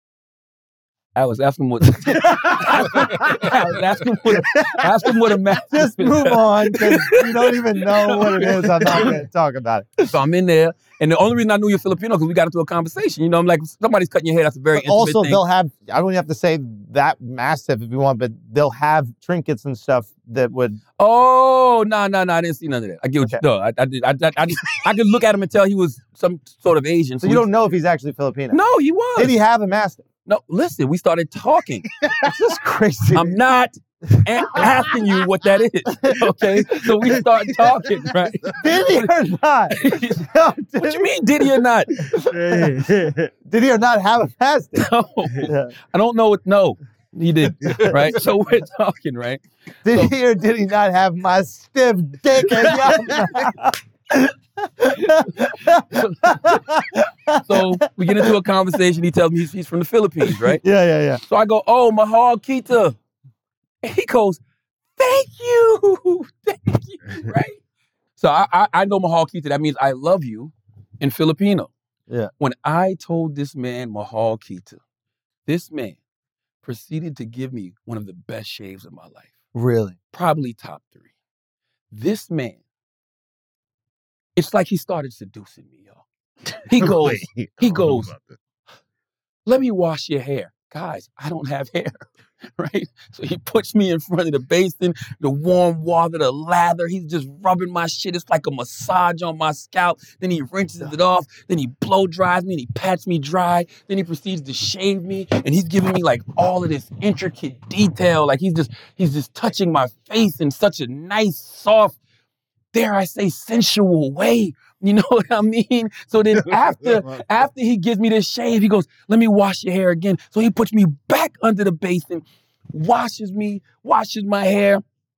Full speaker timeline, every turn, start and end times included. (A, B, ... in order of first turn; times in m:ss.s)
0:01.2-0:09.2 A
0:02.1-0:03.4 B
0:05.7-0:09.9 B
0:10.0-0:15.4 A
0:14.7-0:20.8 B
0:21.0-0:27.5 A
0:27.2-0:28.6 B
0:28.5-0:29.4 A
0:29.2-0:30.0 B
0:30.3-0:31.9 A
0:32.2-0:33.4 B
0:33.1-0:39.1 A
0:34.1-0:34.7 B
0:35.9-0:36.4 B
0:37.2-0:38.6 C
0:38.6-0:41.1 B
0:39.7-0:40.3 A
0:40.8-0:42.0 A
0:42.1-0:42.9 B
0:42.3-0:43.3 C
0:43.5-0:44.9 B
0:44.8-0:50.1 A
0:45.4-0:45.7 B
0:47.8-0:48.1 B
0:49.8-0:58.4 B
0:52.6-0:53.1 C
0:55.1-0:56.5 A
0:57.4-1:00.6 A
1:00.3-1:01.2 B
1:01.2-1:03.0 A
1:03.8-1:04.4 A
1:05.0-1:07.6 A
1:08.2-1:11.7 A
1:12.4-1:14.8 A
1:15.5-1:16.0 A
1:16.6-1:19.3 A
1:19.5-1:20.0 B
1:20.1-1:21.0 A
1:21.9-1:22.6 A
1:24.4-1:26.0 A
1:26.6-1:28.1 A
1:26.8-1:28.4 C
1:29.5-1:32.1 A
1:32.6-1:52.0 A
1:52.7-2:04.8 A